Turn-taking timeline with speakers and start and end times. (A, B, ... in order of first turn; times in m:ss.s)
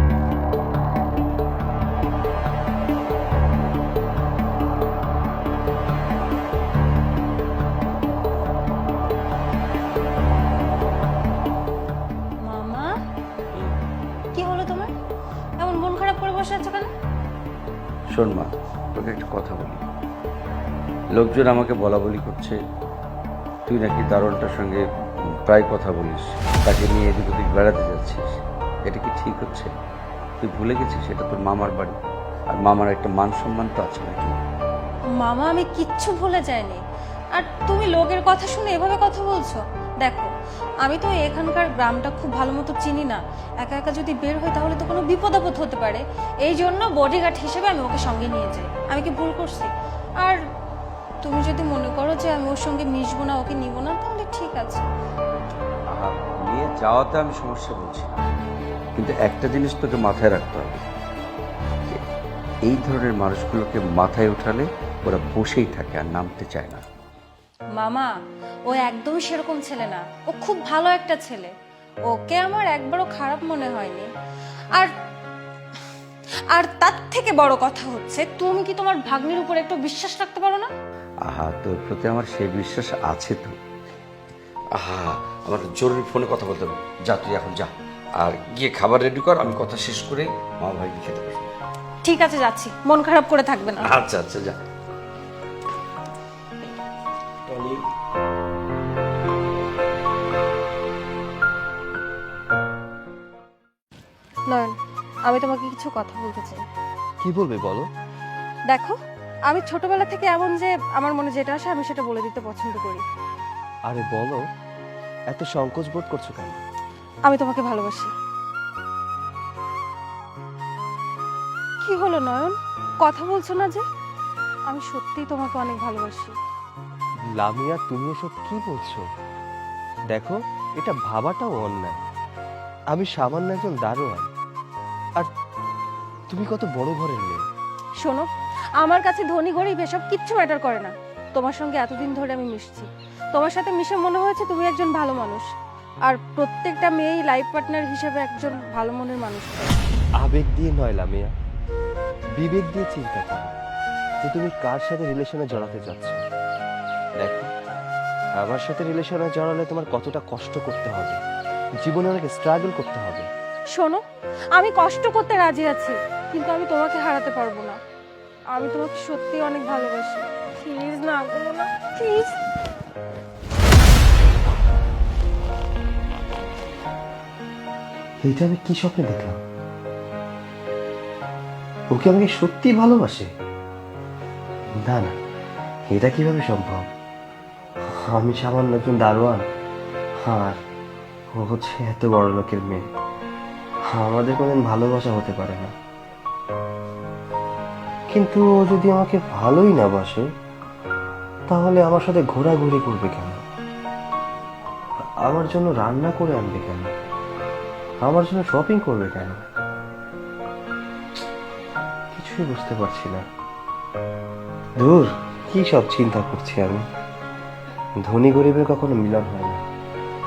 0:12.4-0:12.9 A
0:14.3-0:14.9 A
0:15.6-0:16.9 A
0:18.1-0:19.8 B
0:21.1-0:22.6 B
0:23.7-0:24.8 B
0:25.4-0:29.7 B
0:30.4-0:32.0 B
0:32.5-0:34.4 B
0:35.2-0:36.8 A
0:37.3-0:40.3 A
0:40.8-0:49.7 A
0:51.2-0:54.9 A
0:55.9-0:58.1 B
0:59.0-1:00.8 B
1:02.6-1:06.8 B
1:07.8-1:08.1 A
1:08.7-1:11.5 A
1:12.1-1:14.1 A
1:16.5-1:20.7 A
1:21.3-1:23.6 B
1:24.8-1:31.5 B
1:32.0-1:33.9 A
1:33.8-1:34.6 B
1:37.5-1:37.8 B
1:44.5-1:44.7 A
1:45.3-1:46.6 A
1:47.2-1:47.8 C
1:48.7-1:49.0 A
1:49.5-1:53.0 A
1:53.9-1:54.4 C
1:55.3-1:56.6 C
1:57.2-1:58.1 A
2:01.8-2:03.8 A
2:04.7-2:06.3 A
2:07.4-2:09.0 C
2:10.1-2:12.0 C
2:12.9-2:14.3 C
2:16.3-2:17.4 C
2:18.0-2:18.3 A
2:18.8-2:25.4 A
2:26.0-2:29.8 A
2:30.2-2:31.3 C
2:32.4-2:33.5 C
2:34.2-2:36.2 C
2:37.2-2:37.5 C
2:38.4-2:41.2 C
2:41.8-2:43.3 C
2:43.7-2:44.0 A
2:44.5-2:47.8 A
2:48.5-2:52.4 A
2:58.2-2:59.4 C
3:01.9-3:03.3 C
3:04.8-3:05.2 C
3:05.9-3:06.9 C
3:07.9-3:09.4 C
3:10.2-3:10.6 C
3:11.3-3:12.8 C
3:13.9-3:15.7 C
3:18.1-3:20.3 C
3:21.5-3:23.4 C
3:25.2-3:26.9 C
3:28.0-3:29.4 C
3:32.1-3:33.2 C
3:34.8-3:36.8 C
3:38.0-3:39.6 C